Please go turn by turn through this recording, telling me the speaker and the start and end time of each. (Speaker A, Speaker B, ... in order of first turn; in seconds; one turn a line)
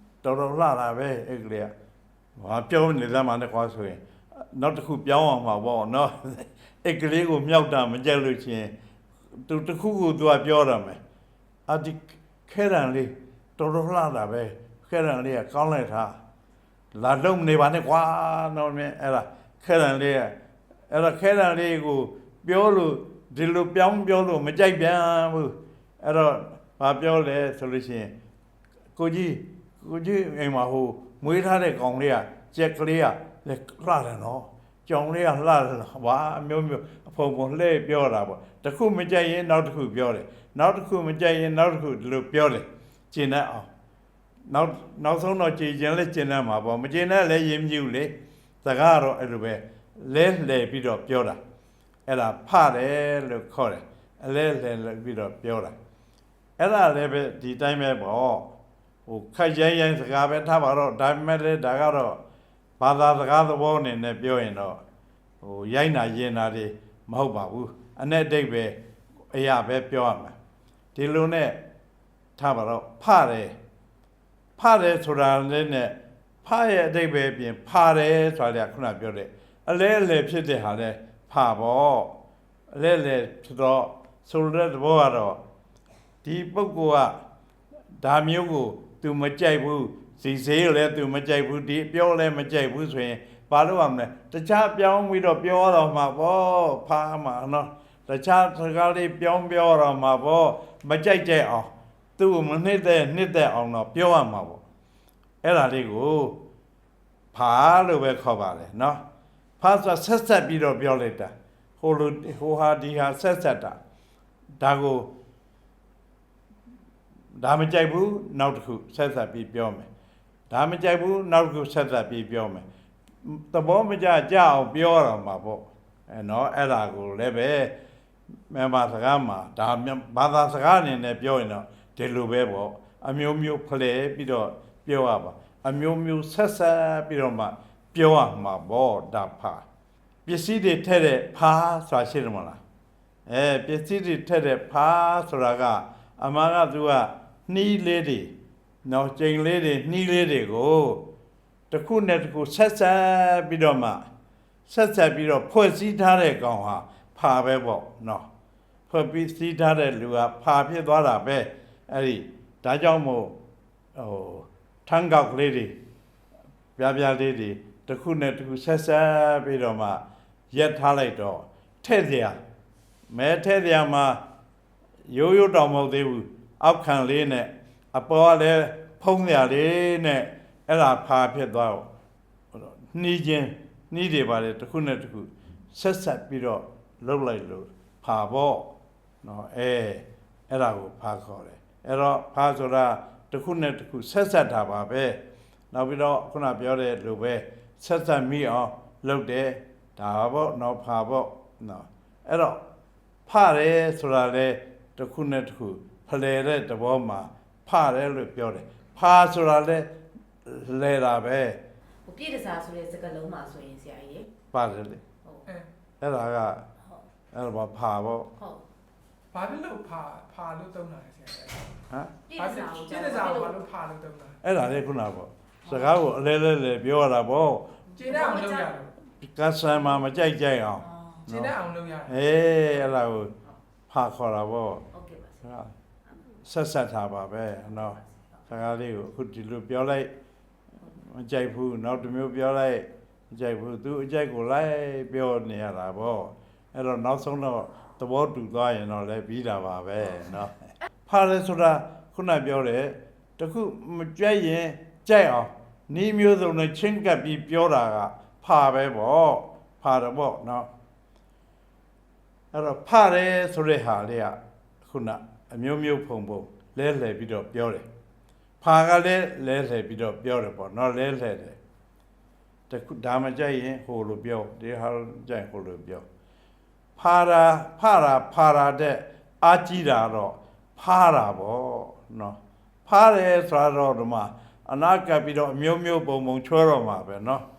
Speaker A: 0.2-1.7
Speaker A: 2.4-8.7
Speaker A: 9.4-11.0
Speaker A: 11.7-16.1
Speaker A: 16.9-20.3
Speaker A: 20.9-28.1
Speaker A: 28.9-43.7
Speaker A: 44.5-51.4
Speaker A: 52.1-55.7
Speaker A: 56.6-58.5
Speaker A: 59.0-62.2
Speaker A: 62.8-64.8
Speaker A: 65.4-68.7
Speaker A: 69.3-70.3
Speaker A: 70.9-71.6
Speaker A: 72.4-73.5
Speaker A: 74.6-82.1
Speaker A: 82.7-85.4
Speaker A: 86.2-87.1
Speaker A: 88.0-104.6
Speaker A: 105.4-106.4
Speaker A: 107.3-109.0
Speaker A: 109.6-113.8
Speaker A: 114.6-115.1
Speaker A: 117.4-119.9
Speaker A: 120.5-122.6
Speaker A: 123.2-127.7
Speaker A: 128.5-139.6
Speaker A: 140.2-142.6
Speaker A: 143.3-148.3
Speaker A: 148.8-151.0
Speaker A: 151.7-154.0
Speaker A: 154.7-158.2
Speaker A: 158.9-163.3
Speaker A: 163.9-165.7
Speaker A: 166.8-172.4
Speaker A: 173.1-174.2
Speaker A: 175.1-181.8
Speaker A: 182.5-188.7
Speaker A: 189.2-195.2
Speaker A: 195.7-202.6
Speaker A: 203.3-209.9
Speaker A: 210.4-211.6
Speaker B: 212.0-214.3
Speaker A: 214.5-215.0
Speaker B: 215.2-215.5
Speaker A: 216.0-216.6
Speaker B: 216.8-217.1
Speaker A: 217.3-218.3
Speaker B: 218.4-218.6
Speaker C: 219.3-221.7
Speaker A: 221.9-222.1
Speaker B: 222.3-223.6
Speaker C: 222.4-224.4
Speaker A: 224.4-227.7
Speaker B: 225.6-226.0
Speaker B: 227.9-228.7
Speaker C: 228.0-228.9
Speaker A: 229.2-231.5
Speaker B: 230.8-231.2
Speaker C: 231.2-232.1
Speaker A: 232.1-233.3
Speaker A: 233.9-234.9
Speaker B: 234.9-235.4
Speaker A: 235.4-235.7
Speaker A: 236.4-238.0
Speaker B: 237.8-238.4
Speaker A: 238.5-240.1
Speaker A: 240.8-260.7
Speaker A: 262.5-267.9
Speaker A: 268.6-271.6
Speaker A: 272.7-276.1
Speaker A: 277.0-287.4